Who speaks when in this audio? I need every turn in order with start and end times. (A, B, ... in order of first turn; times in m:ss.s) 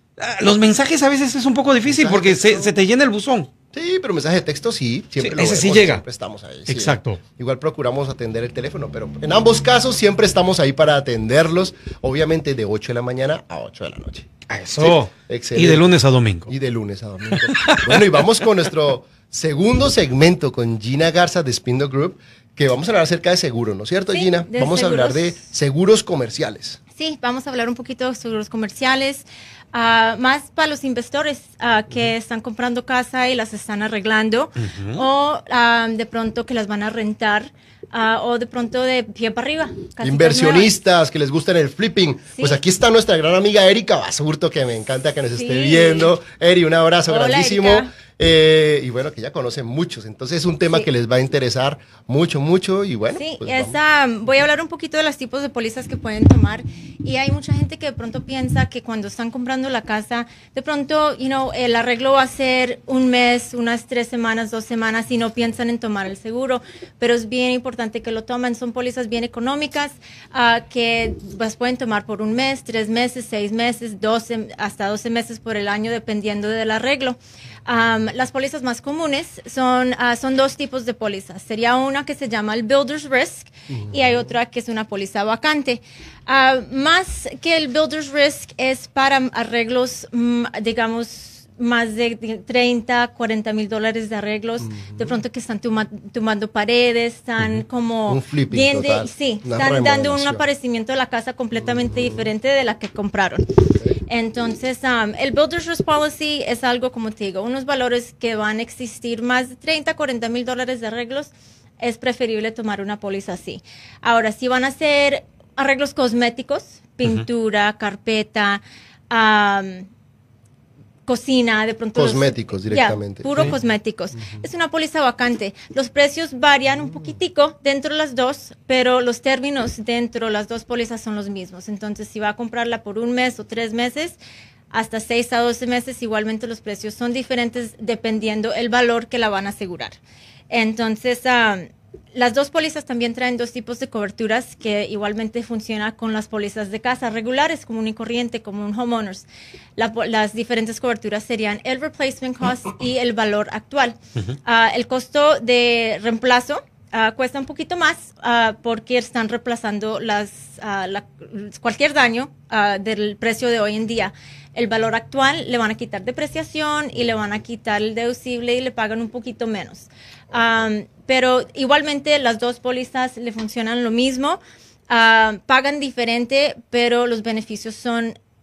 0:00.2-0:03.5 A
0:01.9-0:02.7 B
0:03.7-0:14.3 B
0:05.2-0:06.0 A
0:06.7-0:07.2 A
0:14.5-0:16.5 A
0:14.8-0:26.8 B
0:17.3-0:18.3 A
0:24.1-0:25.4 C
0:26.9-0:40.7 C
0:34.6-0:35.0 A
0:40.0-0:53.8 B
0:42.3-0:42.6 C
0:45.3-0:46.1 C
0:47.1-0:47.9 C
0:53.1-1:59.9 C
1:38.1-1:40.4 B
1:43.8-1:44.0 B
2:01.1-2:14.2 C
2:02.0-2:03.6 B
2:14.7-2:20.0 C
2:20.5-2:58.2 C